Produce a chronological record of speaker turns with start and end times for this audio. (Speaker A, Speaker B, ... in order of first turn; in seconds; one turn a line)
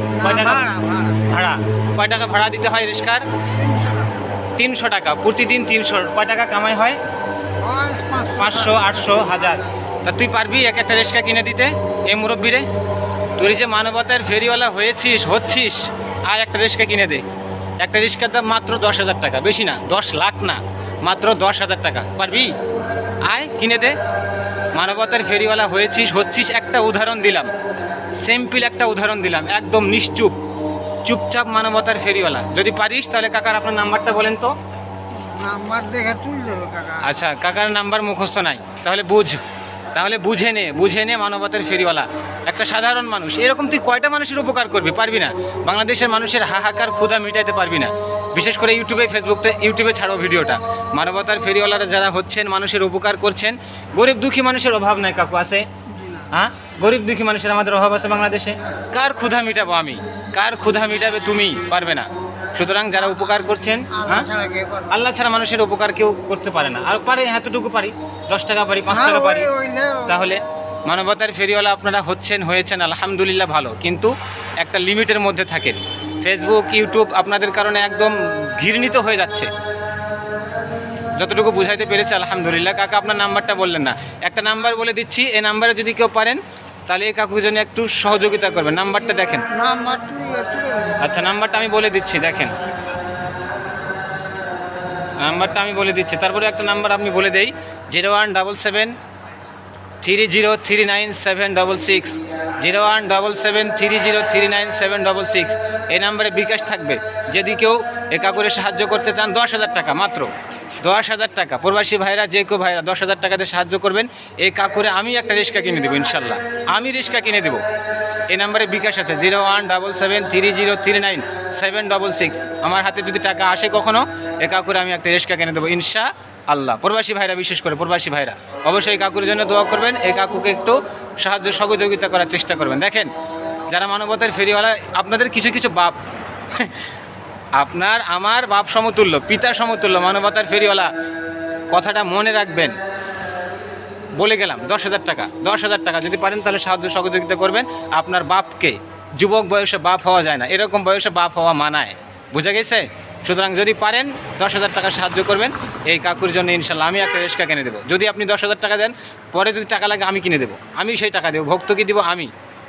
Speaker A: 0.1-1.2
Speaker B: 0.2-0.6
Speaker B: 1.2-3.2
Speaker A: 3.5-4.3
Speaker B: 4.5-7.0
Speaker A: 7.6-9.7
Speaker B: 8.4-12.7
Speaker B: 13.4-17.2
Speaker B: 17.8-22.5
Speaker B: 23.2-23.9
Speaker B: 24.7-27.5
Speaker B: 28.2-30.4
Speaker B: 31.0-34.5
Speaker A: 35.1-37.1
Speaker B: 37.0-39.4
Speaker B: 39.9-55.6
Speaker A: 55.9-56.3
Speaker B: 56.3-64.3
Speaker A: 63.9-64.9
Speaker B: 64.9-69.5
Speaker A: 68.9-70.2
Speaker B: 70.0-79.5
Speaker B: 81.2-89.4
Speaker A: 89.5-91.0
Speaker B: 91.0-92.5
Speaker B: 95.2-98.9
Speaker B: 100.0-110.3
Speaker B: 110.8-117.6
Speaker B: 118.3-133.1
Speaker B: 133.7-136.0
Speaker B: 137.5-140.9
Speaker B: 141.7-142.8
Speaker B: 144.2-162.3